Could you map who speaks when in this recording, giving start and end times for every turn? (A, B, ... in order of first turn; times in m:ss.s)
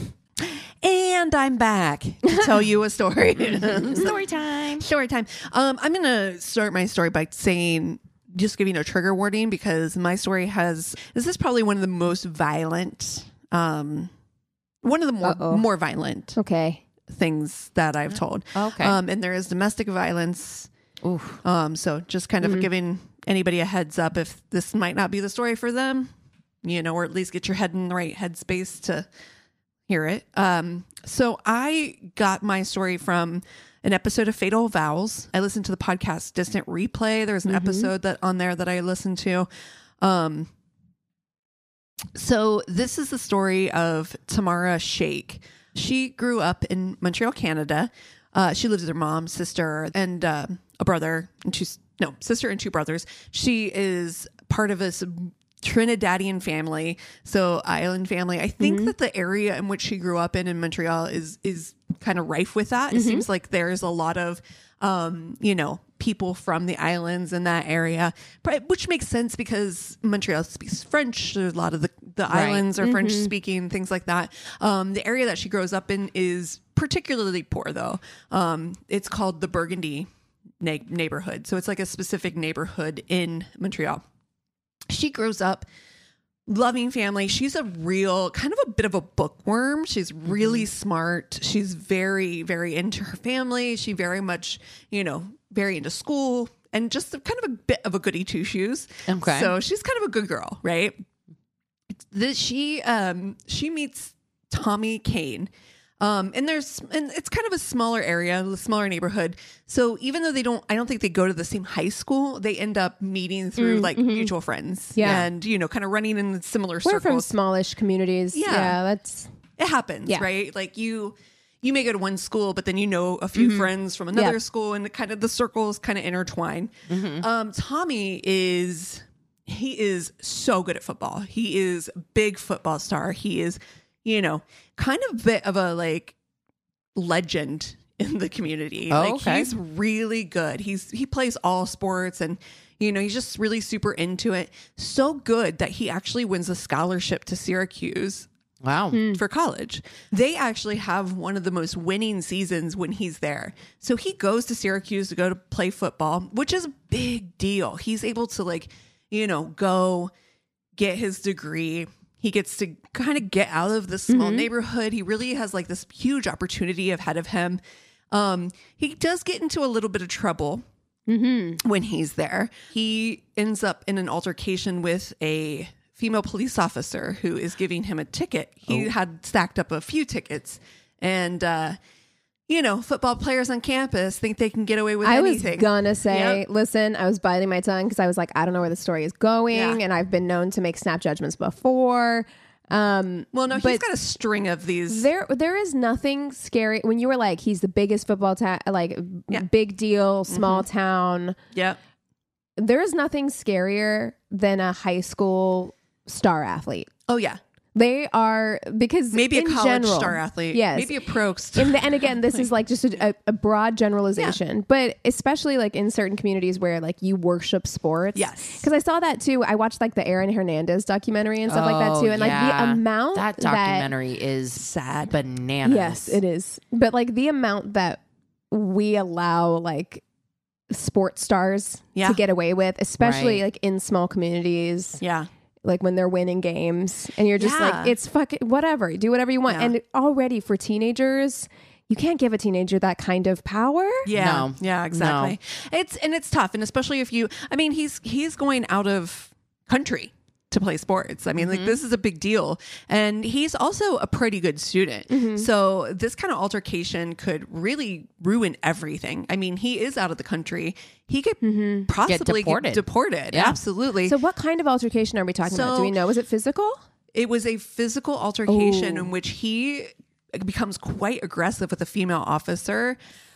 0:00.4-0:04.2 A
0:03.7-0:04.9 B
0:04.8-0:14.1 A
0:14.8-0:16.4 A
0:15.2-0:15.7 C
0:16.4-0:16.8 C
0:17.1-0:20.7 A
0:18.6-0:19.0 B
0:21.0-0:21.4 B
0:21.4-0:26.1 A
0:26.6-0:29.1 A
0:29.9-0:39.5 A
0:37.5-0:37.9 C
0:40.0-0:40.5 A
0:42.2-1:20.1 A
0:58.6-0:58.9 C
1:02.9-1:03.3 C
1:12.3-1:12.7 B
1:12.8-1:13.3 C
1:20.6-1:24.0 A
1:24.9-1:25.7 A
1:26.5-1:41.0 A
1:30.3-1:30.6 B
1:39.1-1:39.5 B
1:42.1-1:57.3 A
1:53.6-1:54.3 C
1:55.0-1:55.3 C
1:56.8-1:59.3 C
1:58.3-1:58.8 A
1:59.6-2:16.2 A
2:03.4-2:04.4 C
2:06.9-2:07.3 B
2:17.0-2:28.3 A
2:18.9-2:19.5 B
2:28.6-2:29.1 B
2:28.9-2:29.2 C
2:29.1-2:40.1 A
2:40.8-2:50.6 A
2:44.1-2:44.5 C
2:51.1-2:51.6 C
2:51.6-3:01.8 A
3:02.5-3:06.4 A
3:05.0-3:13.8 C
3:09.5-3:09.8 A
3:13.3-3:15.1 A
3:14.9-3:21.4 C
3:20.3-3:20.6 A
3:21.5-3:21.8 A
3:22.6-3:26.9 C
3:27.1-3:27.4 A
3:27.8-3:31.0 C
3:29.1-3:32.5 A
3:31.6-3:43.9 C
3:38.2-3:38.7 A
3:41.5-3:46.2 B
3:44.6-3:45.2 A
3:45.6-3:50.0 C
3:50.7-3:55.0 C
3:53.0-3:53.4 B
3:55.0-3:55.3 A
3:55.6-4:04.1 C
3:57.4-3:58.0 A
3:59.5-3:59.7 A
4:04.1-4:24.2 A
4:04.1-4:05.4 B
4:11.4-4:11.8 B
4:15.1-4:15.5 C
4:21.4-4:21.9 C
4:22.1-4:23.6 B
4:24.1-4:26.8 C
4:25.4-4:26.0 A
4:27.1-4:33.0 A
4:28.5-4:29.1 C